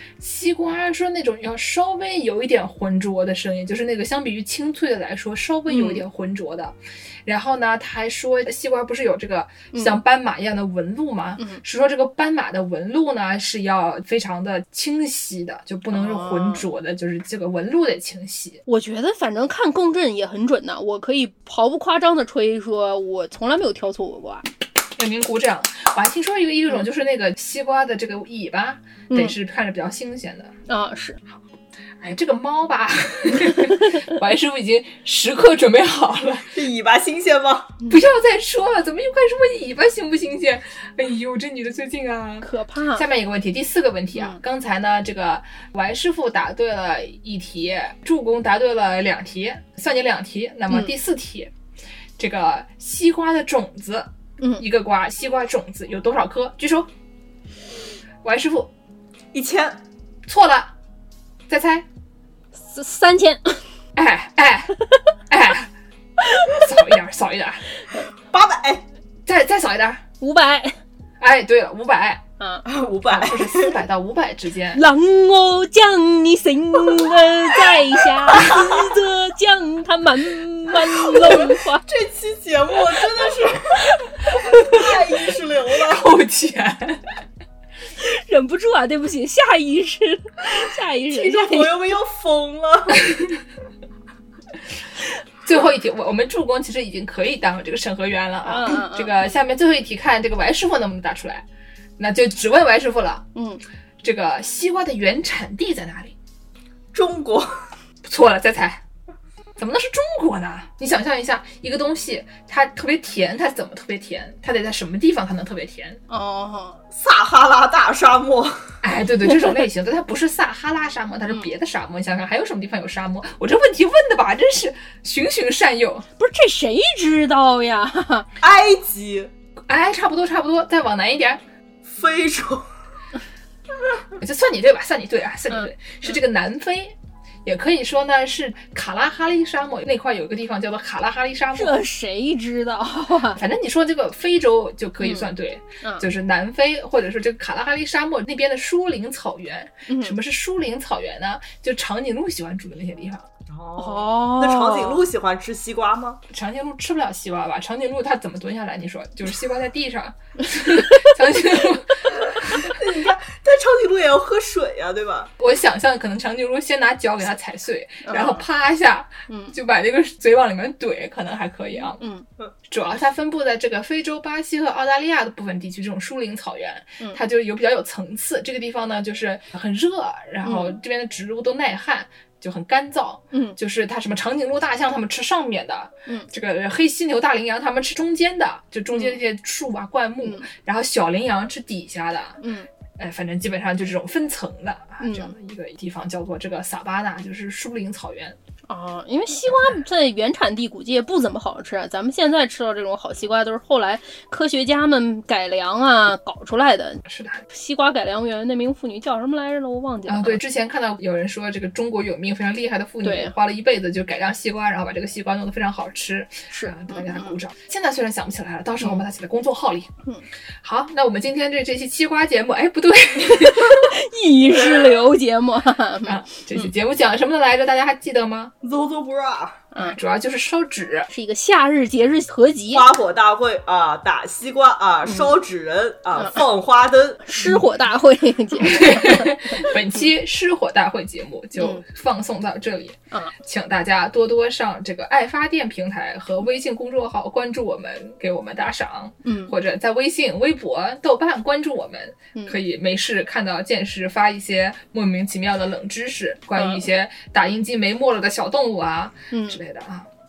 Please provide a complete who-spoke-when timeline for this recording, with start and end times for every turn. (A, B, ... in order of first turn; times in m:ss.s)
0:00.2-0:18.6 A
0:05.7-0:06.0 B
0:09.7-0:10.0 B
0:15.9-0:16.7 B
0:18.7-0:24.4 B
0:25.0-0:30.5 A
0:30.7-0:31.2 B
0:32.0-0:36.5 A
0:36.5-0:37.8 C
0:37.9-0:51.5 A
0:42.4-0:43.0 B
0:44.1-0:44.4 B
0:52.2-0:56.9 A
0:58.2-0:58.7 A
0:59.3-0:59.8 C
1:00.3-1:00.7 A
1:01.5-1:01.8 A
1:02.6-1:03.6 B
1:04.0-1:04.8 A
1:05.3-1:05.7 A
1:06.2-1:06.6 B
1:06.5-1:07.6 A
1:08.3-1:08.8 C
1:09.2-1:10.0 A
1:10.2-1:10.8 B
1:11.2-1:12.2 A
1:12.4-1:12.6 B
1:12.6-1:13.8 C
1:13.1-1:14.8 A
1:14.7-1:21.8 B
1:18.3-1:18.7 C
1:21.0-1:26.1 C
1:24.6-1:24.8 A
1:25.8-1:27.0 A
1:28.0-1:31.8 B
1:31.1-1:33.1 C
1:35.4-1:41.4 A
1:38.4-1:39.1 B
1:42.0-1:43.3 A
1:43.3-1:43.6 B
1:44.0-1:46.2 A
1:46.9-1:47.5 C
1:48.0-1:48.8 A
1:49.6-1:56.0 A
1:56.1-1:56.8 B
1:56.9-1:58.6 C
1:58.8-2:06.1 A
1:59.2-1:59.6 B
2:06.2-2:08.3 B
2:08.4-2:09.3 C
2:09.7-2:11.4 A
2:11.8-2:12.7 C
2:14.2-2:21.8 A
2:21.5-2:23.4 B
2:23.3-2:33.2 A
2:25.0-2:25.3 B
2:25.8-2:26.1 B
2:29.9-2:30.2 B
2:33.5-2:36.2 C
2:33.8-2:35.1 B
2:36.3-2:42.7 A
2:40.7-2:41.1 B
2:42.7-2:45.3 C
2:45.4-2:52.0 A
2:48.0-2:48.4 B
2:49.3-2:49.6 B
2:51.8-2:52.2 B
2:52.7-3:12.4 A
3:00.4-3:00.8 B
3:03.3-3:03.6 B
3:08.9-3:09.2 B
3:10.2-3:10.5 B
3:12.4-3:12.7 B
3:13.0-3:18.4 A
3:15.0-3:15.3 B
3:18.7-3:30.4 B
3:27.0-3:27.4 A
3:30.1-3:39.9 A
3:33.0-3:33.3 B
3:36.5-3:37.4 B
3:40.6-3:43.9 A
3:43.7-3:46.7 B
3:46.1-3:48.5 A
3:48.6-3:49.6 C
3:49.8-3:51.1 A
3:51.1-3:52.9 B
3:52.7-3:57.2 C
3:55.0-3:55.4 B
3:56.2-3:56.4 B
3:57.2-4:00.0 B
3:58.6-4:20.1 A
4:01.6-4:01.8 B
4:09.2-4:09.5 B
4:16.5-4:16.8 B
4:19.3-4:19.6 B